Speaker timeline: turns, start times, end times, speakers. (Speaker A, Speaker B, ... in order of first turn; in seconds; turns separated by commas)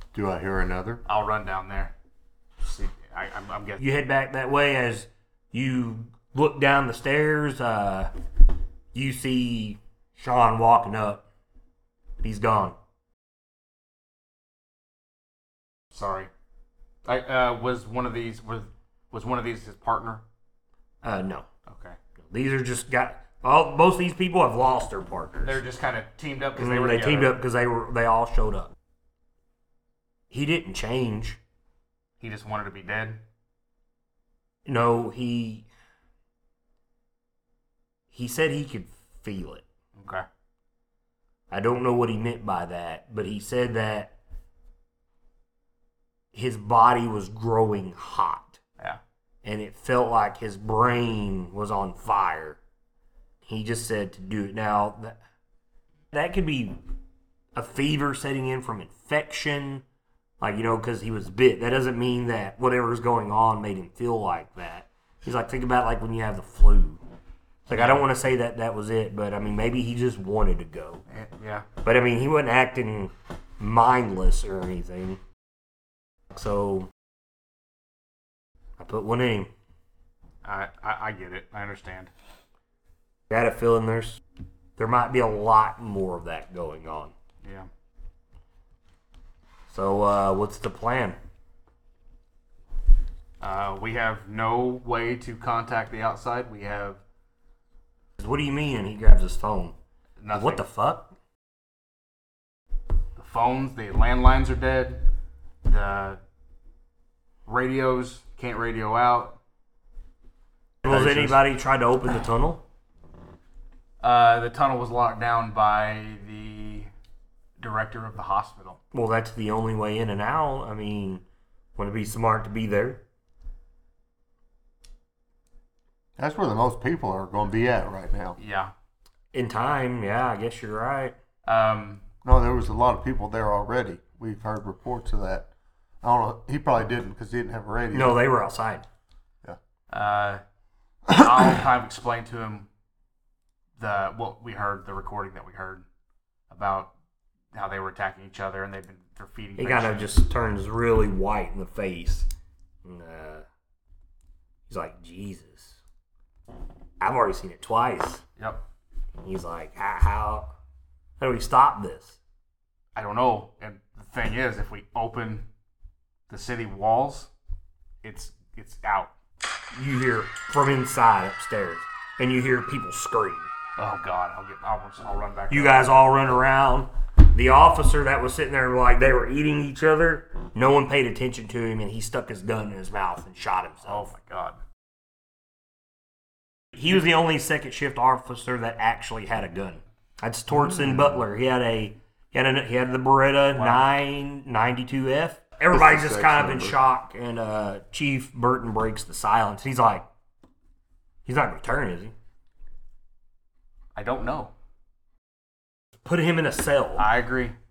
Speaker A: 0.1-1.0, Speaker B: 1.1-1.9, Speaker B: 2.6-3.8, Speaker C: 3.8-8.1, Speaker C: 8.9-11.2, Speaker C: 12.2-12.8, Speaker B: 15.9-16.3, Speaker B: 17.1-20.2, Speaker C: 21.0-21.5, Speaker B: 21.7-22.0, Speaker C: 22.2-25.6, Speaker B: 25.4-27.4, Speaker C: 26.6-28.7, Speaker C: 30.3-31.4, Speaker B: 32.2-33.2, Speaker C: 34.7-35.7, Speaker C: 38.1-39.6, Speaker B: 40.0-40.2, Speaker C: 41.5-44.2, Speaker C: 46.3-48.6, Speaker C: 49.4-52.6, Speaker C: 53.5-55.2, Speaker C: 56.1-56.8, Speaker C: 57.5-59.9, Speaker C: 60.4-67.0, Speaker C: 67.7-71.0, Speaker B: 67.7-68.0, Speaker B: 71.1-71.7, Speaker C: 71.8-75.2, Speaker C: 76.3-76.9, Speaker C: 78.8-79.5, Speaker B: 80.4-82.1, Speaker C: 83.3-84.2, Speaker C: 84.8-87.1, Speaker B: 87.4-87.7, Speaker C: 89.7-91.2, Speaker B: 93.4-97.0, Speaker C: 98.2-99.8, Speaker B: 100.2-100.6, Speaker C: 100.3-101.1, Speaker B: 103.2-105.1, Speaker B: 105.6-106.2, Speaker B: 107.5-109.4, Speaker A: 110.8-111.4, Speaker C: 110.8-112.6, Speaker B: 114.0-116.9, Speaker B: 117.6-118.8, Speaker C: 118.9-121.2, Speaker C: 121.8-123.0, Speaker A: 126.2-128.4, Speaker B: 128.4-128.7, Speaker C: 129.3-131.2, Speaker B: 131.4-132.1, Speaker A: 132.2-135.5, Speaker A: 136.0-138.2, Speaker C: 137.9-138.8, Speaker B: 139.9-140.4, Speaker B: 141.1-142.7, Speaker B: 143.8-145.8, Speaker B: 146.5-146.9, Speaker B: 147.5-150.1, Speaker C: 149.6-152.3, Speaker C: 152.8-153.4, Speaker C: 154.7-155.8, Speaker C: 157.0-158.2, Speaker B: 158.4-158.6, Speaker C: 159.2-160.5, Speaker C: 161.2-162.2, Speaker B: 163.0-165.5, Speaker B: 166.3-167.3, Speaker B: 168.0-169.1, Speaker C: 169.7-173.5, Speaker B: 173.8-175.9, Speaker C: 175.5-184.1, Speaker B: 183.8-184.6, Speaker C: 186.7-200.1, Speaker A: 190.5-191.3, Speaker B: 193.6-193.9, Speaker A: 195.7-196.8, Speaker C: 201.3-202.1, Speaker B: 203.9-204.5, Speaker C: 206.0-207.1, Speaker B: 207.0-207.6